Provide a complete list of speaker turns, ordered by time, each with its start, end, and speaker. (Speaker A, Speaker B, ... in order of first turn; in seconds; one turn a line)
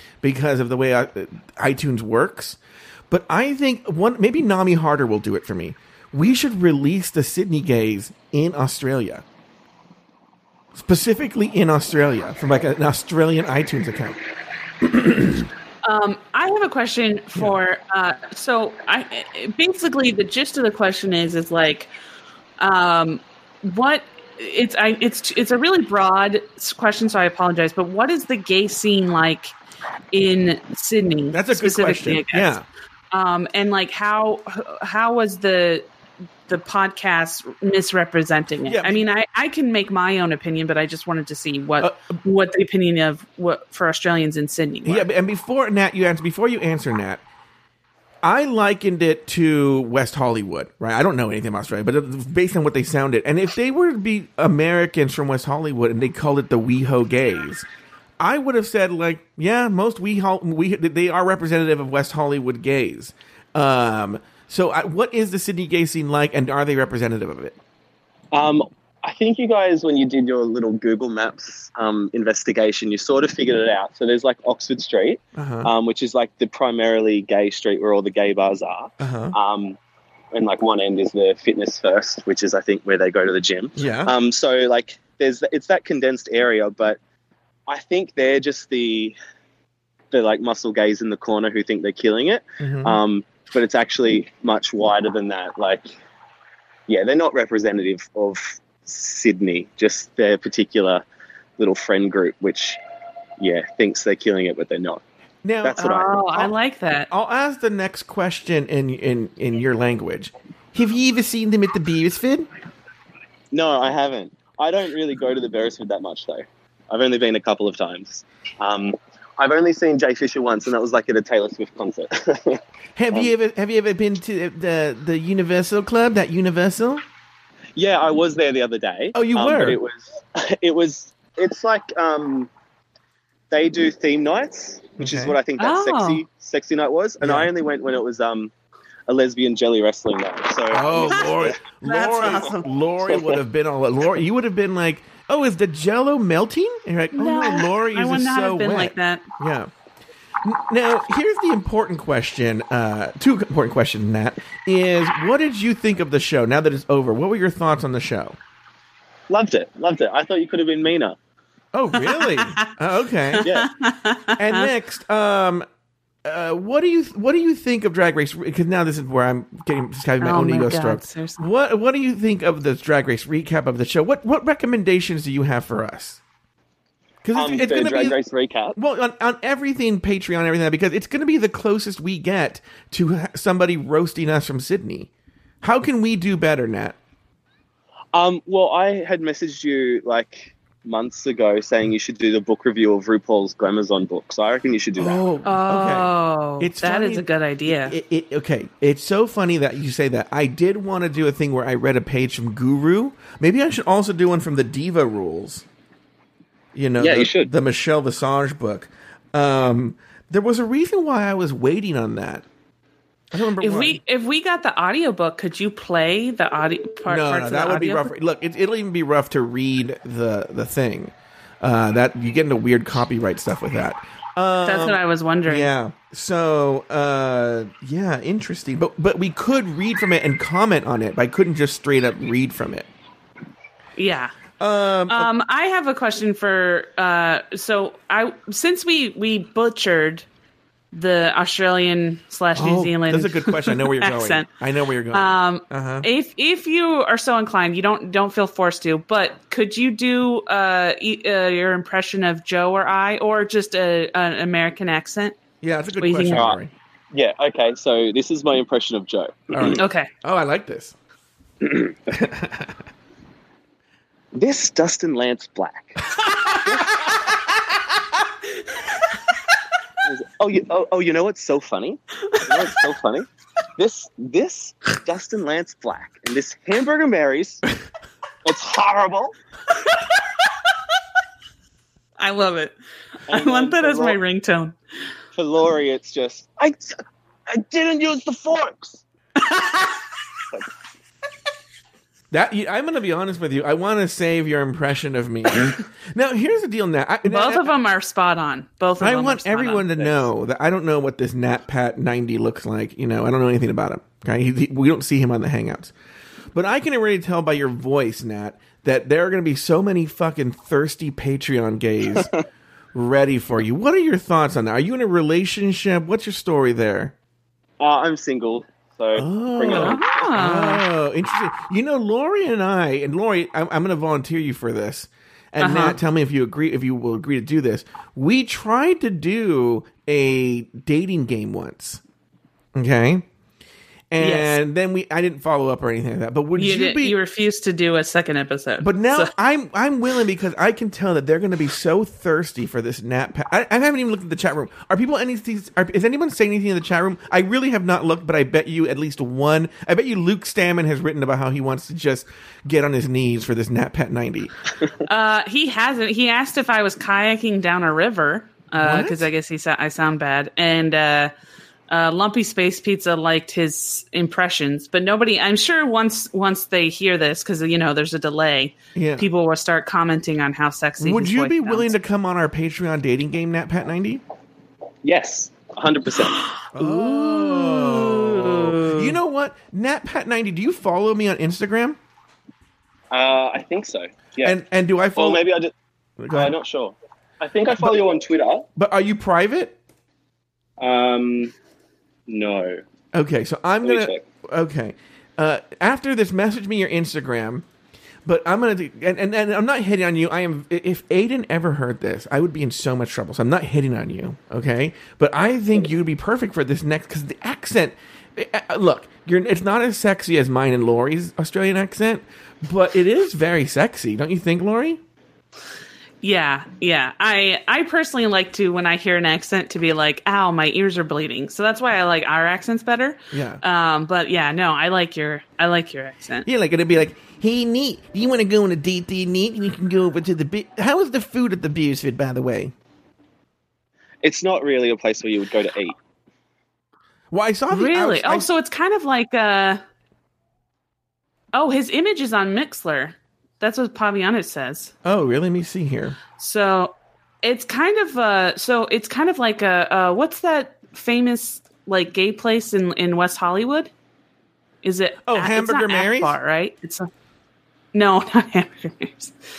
Speaker A: 0.2-9.2
Speaker A: 10.7-14.2
Speaker A: 14.8-15.5
Speaker B: 15.8-21.9
Speaker B: 22.6-29.5
Speaker B: 30.1-32.6
Speaker A: 31.3-32.6
Speaker B: 33.1-35.9
Speaker B: 36.5-45.1
Speaker A: 38.7-39.0
Speaker A: 41.8-42.2
Speaker A: 44.8-47.2
Speaker A: 48.2-57.6
Speaker A: 58.2-67.5
Speaker C: 68.3-79.8
Speaker A: 75.3-75.7
Speaker A: 79.0-79.3
Speaker C: 80.3-87.0
Speaker A: 83.8-84.1
Speaker C: 87.7-89.1
Speaker C: 90.1-95.8
Speaker A: 92.6-93.0
Speaker C: 96.9-101.0
Speaker C: 101.6-102.8
Speaker C: 103.4-105.0
Speaker A: 105.4-106.5
Speaker C: 105.6-106.1
Speaker B: 105.8-107.1
Speaker A: 107.1-112.5
Speaker C: 113.5-122.6
Speaker A: 123.0-127.0
Speaker C: 127.7-132.5
Speaker A: 129.1-129.8
Speaker C: 133.5-138.5
Speaker A: 135.0-135.4
Speaker B: 135.6-136.2
Speaker A: 137.2-137.5
Speaker C: 139.1-141.6
Speaker A: 140.7-149.7
Speaker B: 141.0-142.6
Speaker C: 142.1-143.4
Speaker B: 147.1-149.2
Speaker A: 150.4-158.4
Speaker C: 159.3-161.2
Speaker A: 161.7-163.5
Speaker B: 161.9-162.7
Speaker B: 163.3-164.7
Speaker C: 163.4-163.7
Speaker A: 164.4-165.6
Speaker A: 166.2-176.2
Speaker B: 170.2-171.5
Speaker A: 177.2-178.2
Speaker C: 177.3-178.8
Speaker A: 178.7-185.1
Speaker A: 185.6-187.0
Speaker C: 188.1-195.2
Speaker A: 195.0-205.6
Speaker B: 195.4-197.9
Speaker A: 206.7-212.4
Speaker C: 207.0-207.5
Speaker A: 213.3-214.0
Speaker B: 213.6-218.1
Speaker A: 217.1-232.9
Speaker B: 224.6-225.7
Speaker B: 234.0-234.3
Speaker A: 234.6-235.3
Speaker B: 235.1-240.2
Speaker B: 240.9-244.5
Speaker A: 242.5-246.1
Speaker B: 245.1-255.3
Speaker A: 255.6-256.7
Speaker B: 256.0-256.5
Speaker C: 256.3-256.6
Speaker C: 257.1-259.8
Speaker A: 259.5-260.9
Speaker B: 259.7-260.1
Speaker A: 262.1-262.7
Speaker C: 264.3-266.0
Speaker C: 266.6-267.0
Speaker C: 270.0-277.6
Speaker B: 272.3-272.7
Speaker C: 278.4-279.3
Speaker B: 279.8-280.1
Speaker B: 282.2-282.7
Speaker B: 283.3-284.8
Speaker C: 283.3-284.2
Speaker C: 285.3-287.0
Speaker C: 287.5-289.0
Speaker B: 289.4-290.1
Speaker A: 292.3-297.7
Speaker B: 297.2-300.3
Speaker A: 299.0-305.9
Speaker A: 306.5-312.3
Speaker A: 312.9-317.1
Speaker C: 317.8-320.3
Speaker A: 319.1-332.0
Speaker B: 319.7-320.8
Speaker B: 325.6-326.0
Speaker A: 332.7-333.2
Speaker A: 334.1-337.1
Speaker B: 334.2-334.6
Speaker B: 336.5-339.3
Speaker A: 338.8-354.5
Speaker B: 355.0-361.3
Speaker A: 358.8-359.3
Speaker B: 361.9-371.9
Speaker A: 368.9-369.3
Speaker A: 371.0-374.2
Speaker C: 375.0-376.5
Speaker A: 376.7-382.0
Speaker B: 376.8-379.2
Speaker C: 383.1-384.6
Speaker A: 384.4-385.4
Speaker C: 385.1-385.7
Speaker A: 386.2-386.5
Speaker C: 386.3-388.6
Speaker A: 388.8-389.8
Speaker C: 390.8-391.5
Speaker C: 392.3-392.8
Speaker A: 393.1-397.6
Speaker C: 393.8-394.2
Speaker A: 398.2-415.0
Speaker B: 416.2-426.5
Speaker A: 423.3-423.6
Speaker A: 426.4-432.7
Speaker C: 434.2-436.0
Speaker A: 437.3-438.5
Speaker B: 437.7-439.8
Speaker B: 441.5-444.9
Speaker A: 445.0-446.2
Speaker B: 446.4-453.9
Speaker B: 454.8-457.1
Speaker A: 455.2-456.4
Speaker B: 457.9-459.3